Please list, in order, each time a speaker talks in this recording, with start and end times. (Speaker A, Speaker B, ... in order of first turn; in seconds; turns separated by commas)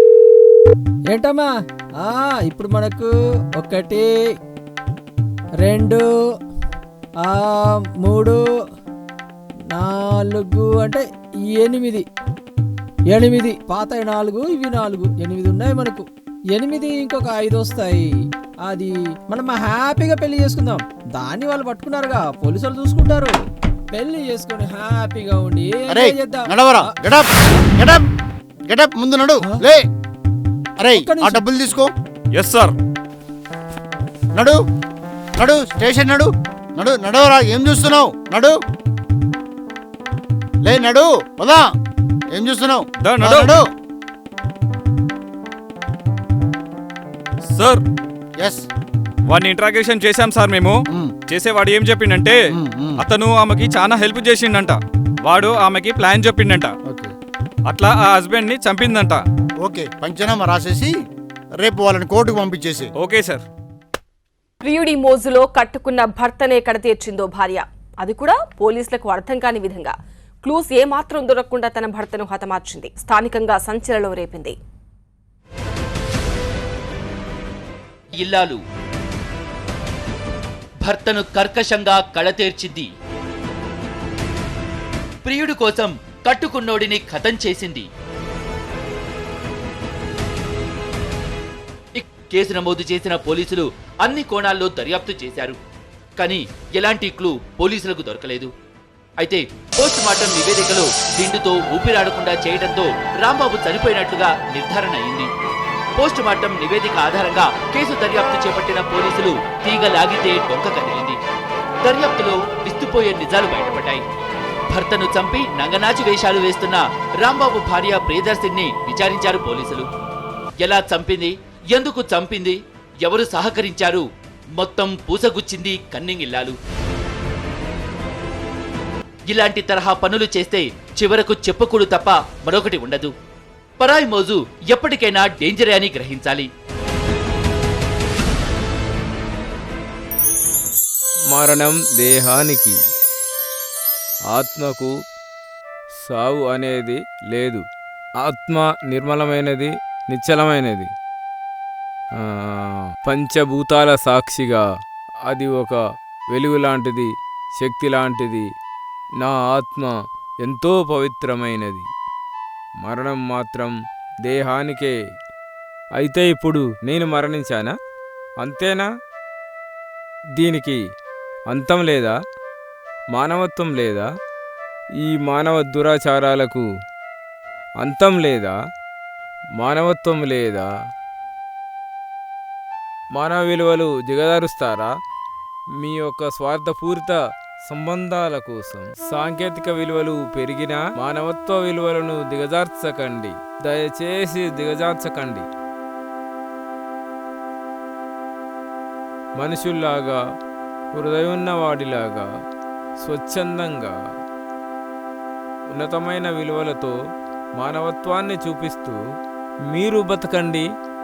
Speaker A: 1.1-4.1, Speaker A: 5.6-6.0, Speaker A: 7.2-8.4, Speaker A: 9.7-12.1, Speaker A: 13.1-18.1, Speaker A: 18.6-27.7, Speaker B: 25.9-28.0, Speaker B: 28.7-29.8, Speaker B: 30.8-31.9, Speaker A: 30.9-31.4, Speaker C: 32.3-32.8, Speaker B: 34.3-34.6, Speaker B: 35.4-38.5, Speaker B: 40.6-41.6, Speaker B: 42.3-43.6, Speaker C: 43.0-43.5, Speaker C: 47.5-47.8, Speaker B: 48.4-48.6, Speaker C: 49.3-52.4, Speaker B: 52.6-53.0, Speaker C: 53.0-56.7, Speaker B: 56.9-57.1, Speaker C: 57.7-59.2, Speaker B: 59.6-60.9, Speaker B: 61.6-62.9, Speaker C: 63.0-63.4, Speaker D: 64.6-74.5, Speaker E: 78.2-78.6, Speaker E: 80.8-82.9, Speaker E: 85.2-87.9, Speaker E: 91.9-95.6, Speaker E: 96.2-98.5, Speaker E: 99.2-105.3, Speaker E: 106.0-111.2, Speaker E: 111.8-114.0, Speaker E: 114.7-119.9, Speaker E: 120.6-126.5, Speaker E: 129.3-133.1, Speaker E: 133.8-136.5, Speaker F: 141.3-142.7, Speaker F: 144.3-144.9, Speaker F: 146.0-147.6, Speaker F: 148.2-150.9, Speaker F: 152.4-154.6, Speaker F: 155.3-155.8, Speaker F: 156.3-157.1, Speaker F: 157.6-158.4, Speaker F: 159.2-161.8, Speaker F: 162.8-163.7, Speaker F: 164.2-164.9, Speaker F: 166.0-167.7, Speaker F: 168.4-168.8, Speaker F: 170.4-170.8, Speaker F: 171.5-172.1, Speaker F: 173.1-174.0, Speaker F: 175.0-176.6, Speaker F: 177.8-178.5, Speaker F: 179.6-180.7, Speaker F: 183.1-184.9, Speaker F: 185.8-195.4, Speaker F: 199.4-200.2, Speaker F: 200.9-202.2, Speaker F: 203.0-203.9, Speaker F: 205.7-206.9, Speaker F: 207.6-209.0, Speaker F: 209.7-210.6